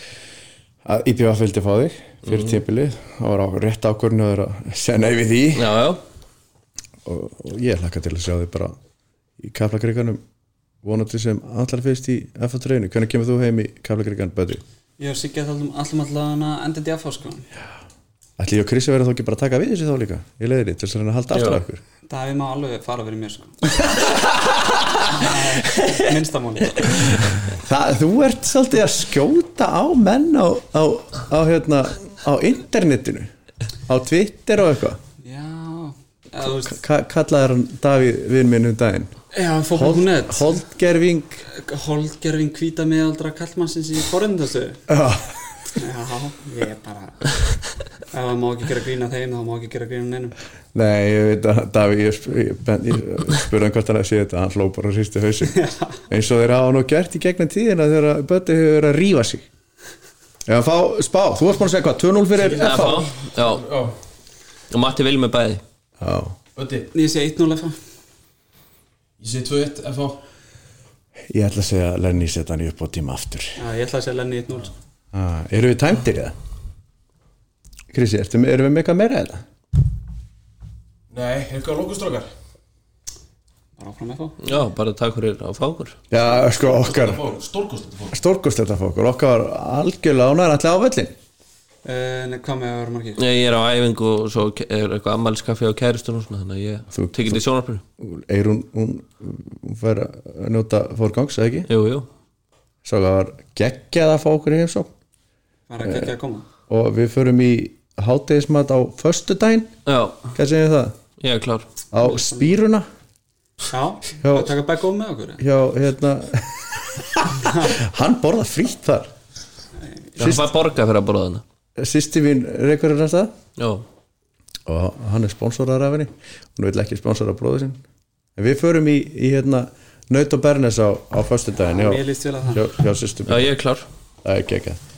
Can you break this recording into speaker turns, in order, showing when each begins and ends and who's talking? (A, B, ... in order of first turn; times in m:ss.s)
0:00.8-0:05.8 A
0:02.3-0:02.6 B
0:05.5-0:06.0 B
0:07.0-0:08.7 A
0:09.4-0:10.2 A
0:10.8-0:14.6 A
0:15.0-0:17.5 C
0:18.4-0:21.8 A
0:21.3-0:21.6 B
0:22.1-0:23.7 C
0:25.0-0:27.1 C
0:27.4-0:33.3 A
0:33.9-0:35.0 A
0:35.2-0:36.8 C
0:36.6-0:39.1 A
0:39.3-0:40.6 C
0:39.7-0:41.4 A
0:41.5-0:44.8 C
0:44.9-0:45.3 A
0:45.8-0:47.3 C
0:48.1-0:50.3 C
0:50.7-0:59.4 A
0:55.5-0:56.0 C
1:00.4-1:03.1 A
1:02.4-1:03.9 D
1:02.5-1:03.7 B
1:04.7-1:05.6 B
1:06.0-1:06.4 A
1:06.6-1:06.9 D
1:06.9-1:07.8 C
1:09.2-1:10.2 D
1:11.3-1:13.6 A
1:13.6-1:14.7 C
1:15.1-1:16.3 A
1:17.9-1:19.4 A
1:21.1-1:22.3 D
1:23.8-1:24.4 C
1:24.4-1:26.0 B
1:26.1-1:27.2 A
1:26.2-1:28.2 D
1:28.1-1:31.1 A
1:31.8-1:33.2 C
1:33.2-1:37.8 B
1:36.9-1:37.4 A
1:38.0-1:41.7 A
1:41.7-1:42.1 B
1:42.8-1:44.9 A
1:45.7-1:46.5 C
1:45.8-1:46.1 A
1:46.7-1:49.7 A
1:49.8-1:50.3 B
1:50.3-1:50.9 A
1:51.2-1:51.7 B
1:51.9-1:52.9 A
1:52.0-1:52.6 C
1:53.7-1:55.4 C
1:54.2-1:54.5 A
1:55.4-1:59.1 A
1:57.4-1:57.7 C
1:59.9-2:00.2 C
2:00.2-2:01.4 B
2:00.2-2:00.5 A
2:01.8-2:03.3 A
2:03.6-2:03.8 B
2:04.6-2:07.8 A
2:08.4-2:12.0 A
2:11.6-2:12.7 C
2:12.5-2:13.5 A
2:13.3-2:13.9 B
2:14.2-2:14.8 A